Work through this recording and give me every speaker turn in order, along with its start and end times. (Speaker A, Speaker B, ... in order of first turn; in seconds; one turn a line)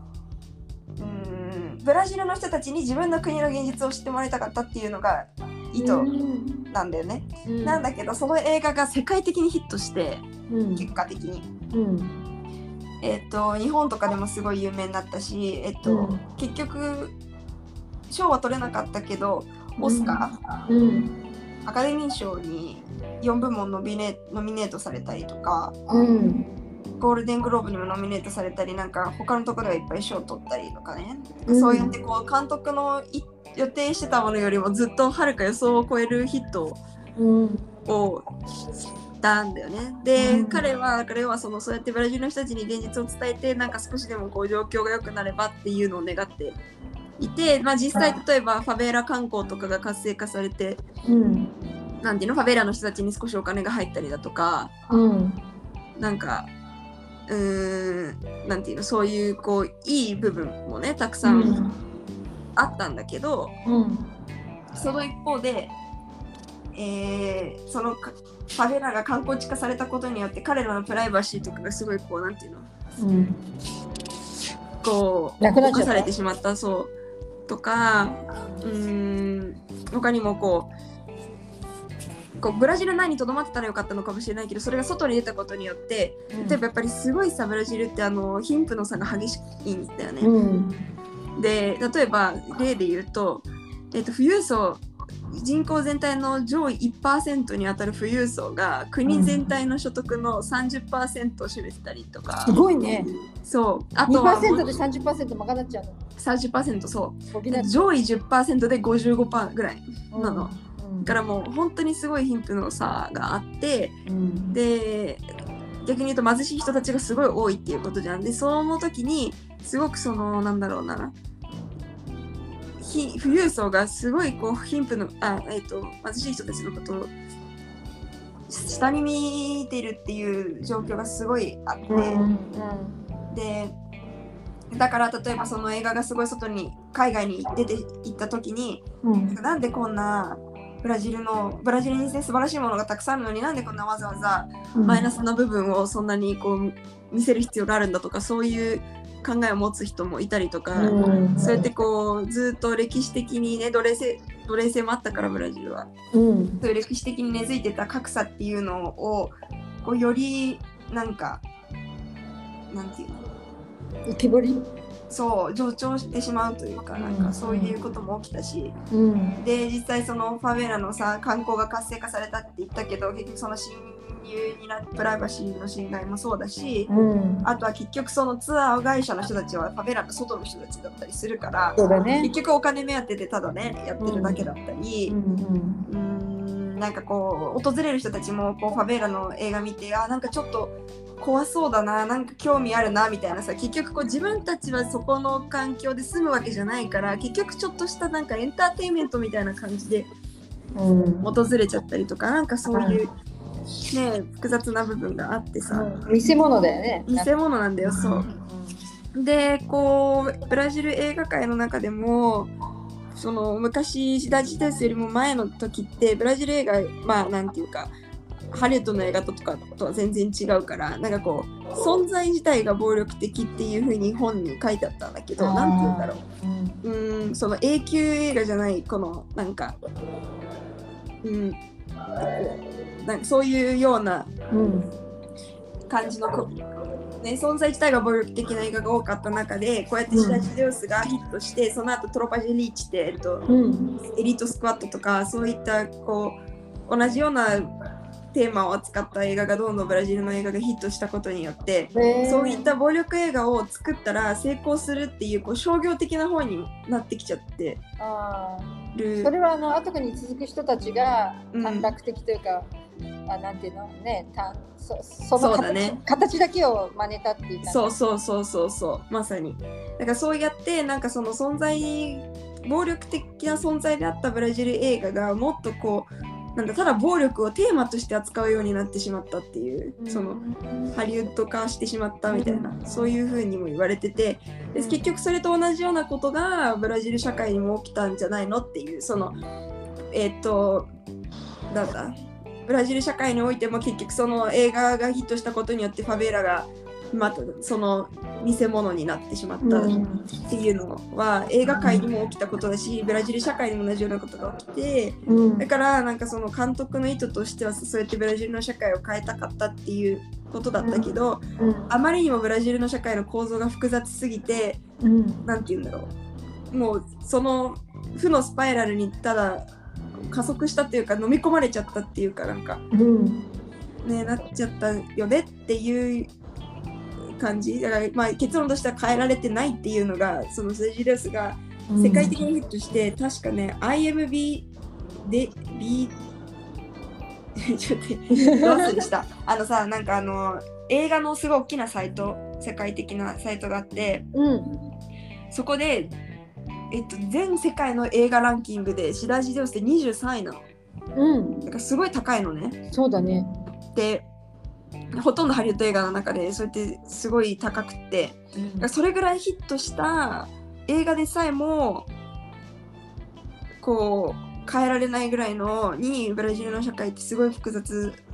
Speaker A: 1.0-6.1
Speaker B: 5.8-6.6
Speaker A: 6.7-10.2
Speaker B: 7.5-7.8
Speaker B: 10.5-10.9
Speaker A: 10.8-11.5
Speaker B: 11.7-12.1
Speaker A: 13.0-17.1
Speaker B: 15.8-16.2
Speaker A: 18.1-20.4
Speaker B: 19.8-21.1
Speaker A: 21.6-25.8
Speaker B: 25.9-26.5
Speaker A: 27.0-36.8
Speaker B: 31.5-31.9
Speaker B: 37.2-37.6
Speaker A: 37.9-38.2
Speaker A: 39.2-46.5
Speaker B: 40.1-40.6
Speaker A: 47.2-50.8
Speaker B: 51.1-51.5
Speaker A: 52.0-54.7
Speaker B: 54.9-55.4
Speaker A: 56.0-56.5
Speaker A: 57.3-61.6
Speaker B: 61.2-61.7
Speaker A: 62.6-63.5
Speaker B: 63.6-64.1
Speaker A: 64.8-65.7
Speaker A: 66.8-72.7
Speaker B: 73.0-73.4
Speaker A: 74.8-76.9
Speaker B: 75.4-76.1
Speaker A: 77.5-80.7
Speaker A: 82.4-90.3
Speaker B: 86.3-86.6
Speaker B: 90.2-90.7
Speaker A: 91.4-102.6
Speaker B: 99.0-99.4
Speaker B: 102.5-103.1
Speaker A: 103.4-104.8
Speaker B: 104.1-106.0
Speaker A: 106.2-114.0
Speaker B: 107.3-107.8
Speaker B: 110.1-111.1
Speaker B: 114.0-114.5
Speaker A: 114.5-115.2
Speaker A: 115.8-121.1
Speaker A: 122.8-127.1
Speaker A: 128.5-132.2
Speaker B: 131.9-133.0
Speaker A: 133.3-133.8
Speaker A: 134.7-155.9
Speaker B: 139.0-139.4
Speaker B: 144.8-145.1
Speaker B: 150.8-151.7
Speaker B: 156.1-156.6
Speaker A: 156.6-161.4
Speaker A: 162.7-163.2
Speaker B: 164.1-164.6
Speaker A: 165.1-168.8
Speaker B: 167.0-167.8
Speaker B: 168.9-169.4
Speaker A: 169.4-176.9
Speaker B: 176.9-177.5
Speaker A: 177.4-185.2
Speaker B: 181.8-182.3
Speaker B: 184.0-184.5
Speaker B: 185.1-185.8
Speaker A: 185.9-200.1
Speaker B: 200.8-201.3
Speaker A: 201.2-203.1
Speaker B: 202.7-203.0
Speaker A: 203.9-205.9
Speaker B: 205.7-207.3
Speaker A: 207.1-208.3
Speaker B: 207.8-208.8
Speaker A: 209.1-212.5
Speaker A: 213.1-217.9
Speaker A: 218.5-226.2
Speaker B: 225.4-226.8
Speaker A: 226.8-229.8
Speaker A: 231.2-231.6
Speaker A: 232.3-234.3
Speaker B: 234.5-234.9
Speaker A: 235.9-236.5
Speaker A: 237.2-243.4
Speaker B: 240.1-240.5
Speaker B: 243.5-244.0
Speaker A: 244.1-247.7
Speaker A: 248.3-257.8
Speaker B: 251.9-252.7
Speaker B: 258.0-258.7
Speaker A: 258.9-259.3
Speaker B: 259.2-262.7
Speaker A: 261.5-261.9
Speaker B: 263.3-268.0
Speaker A: 265.4-266.0
Speaker A: 267.6-280.4
Speaker B: 280.0-280.9
Speaker A: 280.9-289.4
Speaker B: 282.3-283.1
Speaker B: 284.8-285.0
Speaker A: 290.1-290.9
Speaker A: 291.7-292.1
Speaker A: 292.6-299.9
Speaker B: 299.6-300.2
Speaker A: 300.5-314.8
Speaker B: 301.7-302.0
Speaker B: 305.3-305.7
Speaker B: 310.8-311.9
Speaker B: 315.0-315.4
Speaker A: 315.5-316.1
Speaker A: 316.7-319.7
Speaker A: 320.3-322.8
Speaker B: 322.9-323.5
Speaker A: 324.0-326.3
Speaker A: 327.4-334.7
Speaker B: 331.9-332.4
Speaker A: 335.2-336.1
Speaker A: 337.7-344.2
Speaker B: 338.3-339.0
Speaker B: 344.3-344.8
Speaker A: 345.5-346.2
Speaker A: 346.9-350.6
Speaker B: 351.1-351.7
Speaker A: 351.7-352.8
Speaker B: 352.9-353.5
Speaker A: 353.9-354.3
Speaker A: 355.1-362.1
Speaker B: 358.6-358.9
Speaker A: 363.8-368.2